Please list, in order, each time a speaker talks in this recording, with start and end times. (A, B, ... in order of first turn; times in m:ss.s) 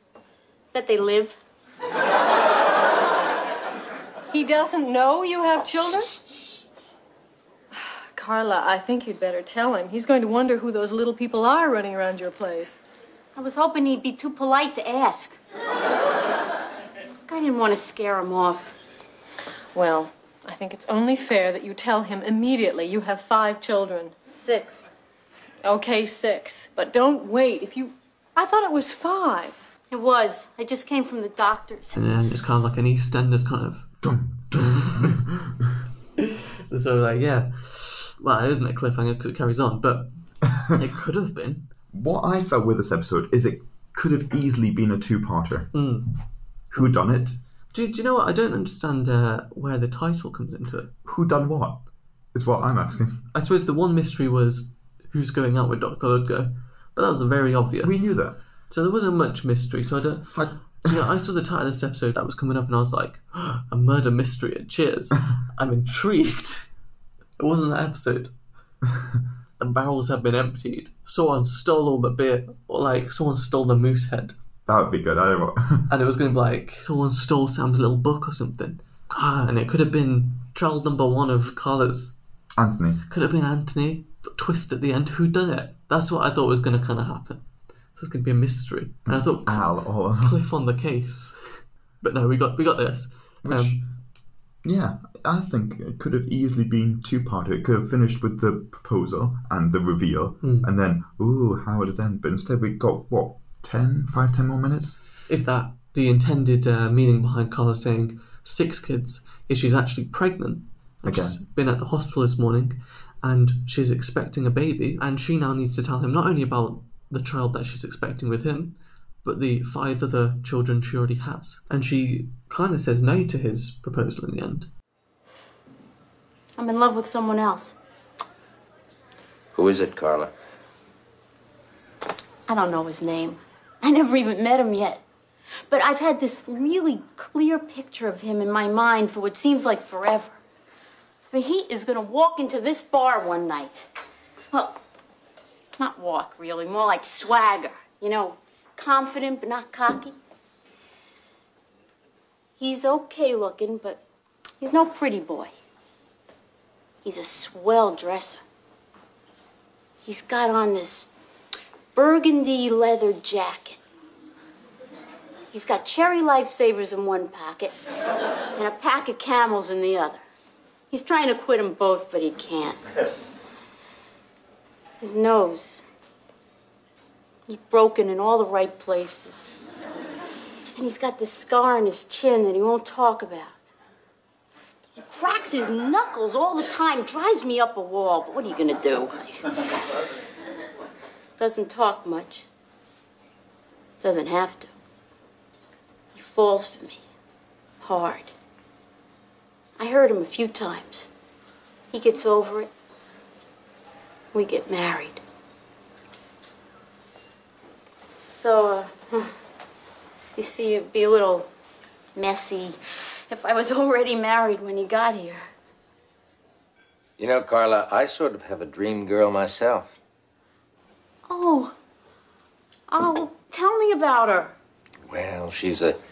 0:00.7-0:01.4 A
0:04.3-0:06.2 B
0:07.7-0:12.8 B
0:13.3-0:15.4 A
0:17.3-0:18.8 A
0:19.7-0:24.2 B
0:24.3-0:24.8 A
0:25.6-0:29.7 B
0:29.9-0:32.0 A
0:31.9-0:33.9 C
0:34.0-0:35.7 D
0:34.5-0:35.2 C
0:36.2-0:41.6 C
0:41.9-0:45.7 D
0:45.7-0:46.1 C
0:46.7-0:47.4 D
0:47.7-0:50.9 C
0:51.0-0:53.2 D
0:53.3-1:06.7 C
0:57.8-0:58.4 D
1:00.3-1:01.0 D
1:07.4-1:08.3 C
1:09.6-1:14.4 C
1:14.7-1:15.9 D
1:15.9-1:22.1 C
1:22.6-1:23.0 D
1:23.1-1:27.4 C
1:28.0-1:33.8 C
1:29.0-1:30.4 D
1:33.4-1:33.9 D
1:34.6-1:45.0 D
1:40.4-1:40.7 C
1:45.3-2:04.7 C
1:51.0-1:51.4 D
2:06.6-2:07.8 A
2:09.5-2:10.3 E
2:12.5-2:15.0 A
2:15.7-2:20.4 A
2:21.3-2:23.9 A
2:24.5-2:24.8 A
2:25.8-2:30.2 A
2:32.6-2:34.0 A
2:34.6-2:35.5 A
2:37.0-2:38.4 A
2:40.0-2:41.1 A
2:41.9-2:43.8 A
2:45.5-2:47.7 A
2:48.5-2:50.2 A
2:50.9-2:52.8 A
2:55.0-2:55.8 A
2:57.5-2:59.6 A
3:00.8-3:03.5 A
3:05.0-3:09.6 A
3:11.4-3:12.4 A
3:14.0-3:14.7 A
3:16.1-3:17.0 A
3:17.8-3:18.3 A
3:19.8-3:21.1 A
3:21.9-3:22.7 A
3:24.3-3:25.2 A
3:28.2-3:29.3 A
3:30.4-3:31.5 A
3:32.1-3:32.8 A
3:33.3-3:35.4 A
3:37.2-3:40.0 E
3:41.3-3:41.7 A
3:42.9-3:44.5 A
3:45.1-3:46.0 E